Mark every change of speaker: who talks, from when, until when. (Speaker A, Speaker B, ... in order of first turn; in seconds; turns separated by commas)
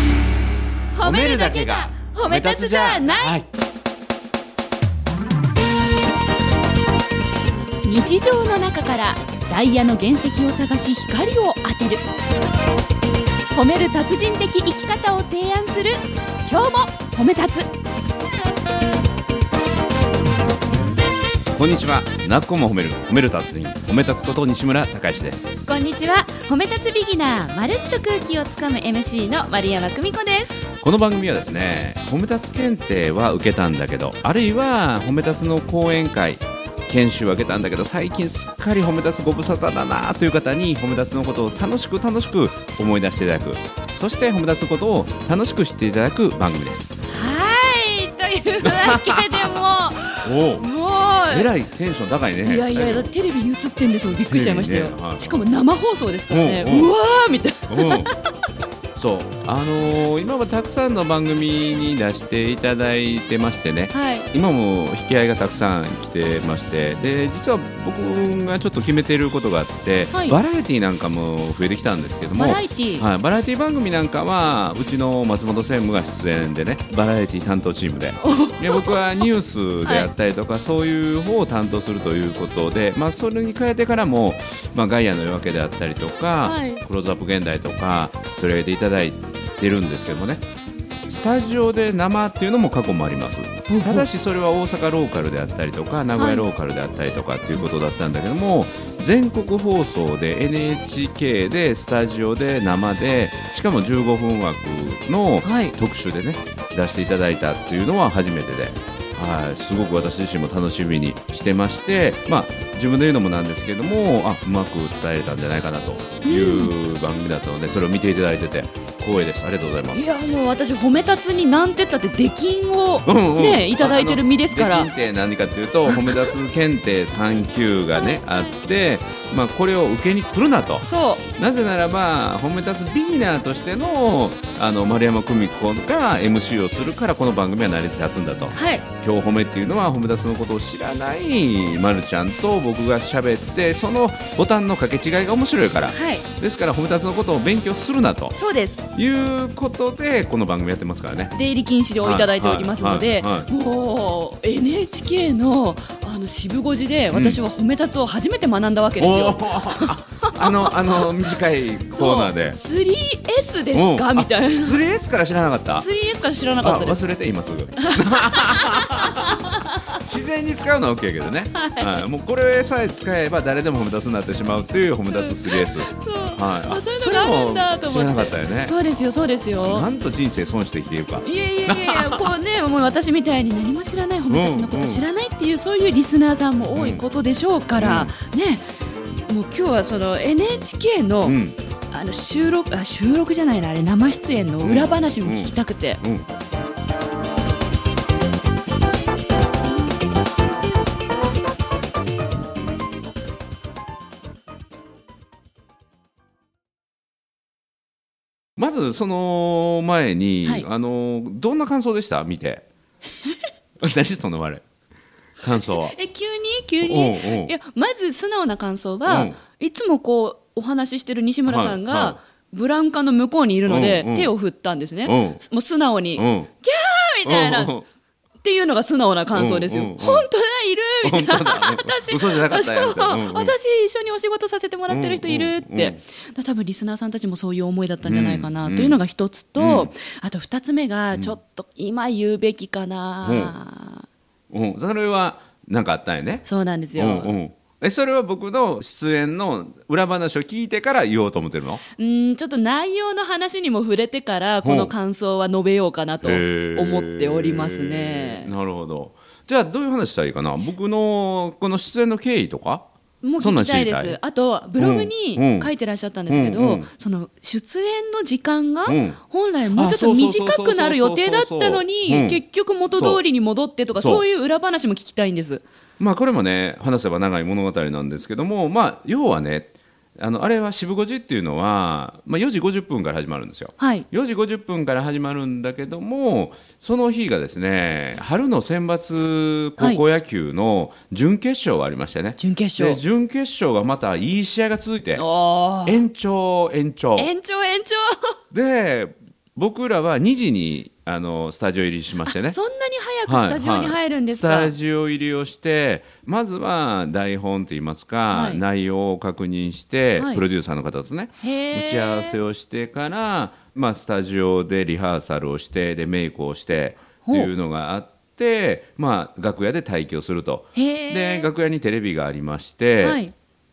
Speaker A: 0.9-3.4, Speaker B: 1.0-3.5, Speaker A: 7.8-12.0, Speaker A: 13.5-17.7, Speaker B: 21.5-25.7, Speaker A: 25.7-30.6, Speaker B: 30.8-47.0, Speaker A: 47.1-51.5, Speaker B: 48.6-49.6, Speaker B: 50.2-50.7, Speaker B: 51.3-53.1, Speaker A: 52.4-58.2, Speaker B: 54.3-55.5, Speaker B: 56.3-56.9, Speaker B: 57.7-58.1, Speaker B: 59.0-90.4, Speaker A: 63.9-64.3, Speaker A: 70.1-70.4, Speaker A: 72.4-73.0, Speaker A: 78.2-79.3, Speaker A: 79.8-80.1, Speaker A: 86.4-86.8, Speaker B: 91.1-120.1, Speaker A: 93.7-94.1, Speaker A: 96.2-96.5, Speaker A: 105.4-105.8, Speaker A: 116.2-116.7, Speaker A: 119.9-124.9, Speaker B: 123.0-130.8, Speaker A: 125.9-126.2, Speaker A: 128.0-128.2, Speaker A: 130.8-131.2, Speaker B: 131.4-148.3, Speaker A: 138.5-138.8, Speaker A: 145.9-146.3, Speaker A: 148.3-148.8, Speaker B: 148.9-151.3, Speaker A: 151.3-161.4, Speaker B: 152.0-153.5, Speaker B: 157.1-157.4, Speaker B: 159.0-162.6, Speaker A: 161.9-164.8, Speaker B: 163.7-165.8, Speaker A: 165.8-167.0, Speaker B: 166.6-178.8, Speaker A: 167.8-170.0, Speaker A: 171.6-172.0, Speaker A: 175.1-179.9, Speaker B: 179.6-182.3, Speaker A: 181.2-188.7, Speaker B: 184.3-185.1, Speaker B: 186.8-187.0, Speaker B: 187.8-188.1, Speaker A: 189.3-191.4, Speaker B: 191.2-191.6, Speaker A: 191.9-196.0, Speaker B: 194.6-196.2, Speaker B: 208.6-212.6, Speaker B: 213.8-214.7, Speaker B: 215.4-215.9, Speaker A: 215.7-227.7, Speaker B: 216.8-217.5, Speaker B: 219.1-219.4, Speaker B: 221.5-222.2, Speaker B: 223.7-224.3, Speaker B: 225.0-225.4, Speaker B: 226.2-226.5, Speaker B: 227.2-227.8, Speaker A: 228.4-244.1, Speaker B: 229.3-230.3, Speaker B: 231.0-233.5, Speaker B: 234.9-236.0, Speaker B: 238.0-239.0, Speaker B: 239.6-239.9, Speaker B: 243.2-243.5, Speaker B: 244.5-251.8, Speaker A: 246.5-247.3, Speaker A: 252.0-258.5, Speaker B: 254.6-254.9, Speaker B: 256.2-262.9, Speaker A: 263.2-275.6, Speaker B: 263.4-264.2, Speaker B: 264.8-265.7, Speaker B: 266.3-266.9, Speaker B: 268.9-269.2, Speaker B: 269.7-272.4, Speaker B: 272.9-273.2, Speaker B: 273.9-274.2, Speaker B: 276.0-295.2, Speaker A: 283.8-284.1, Speaker A: 292.4-293.0, Speaker A: 295.1-296.0, Speaker B: 295.9-297.3, Speaker A: 297.2-298.3, Speaker B: 298.5-302.6, Speaker A: 302.2-304.7, Speaker B: 303.2-323.2, Speaker A: 308.3-308.6, Speaker A: 310.2-310.4, Speaker A: 311.4-312.4, Speaker A: 317.2-317.5, Speaker A: 320.8-321.5, Speaker A: 323.0-323.3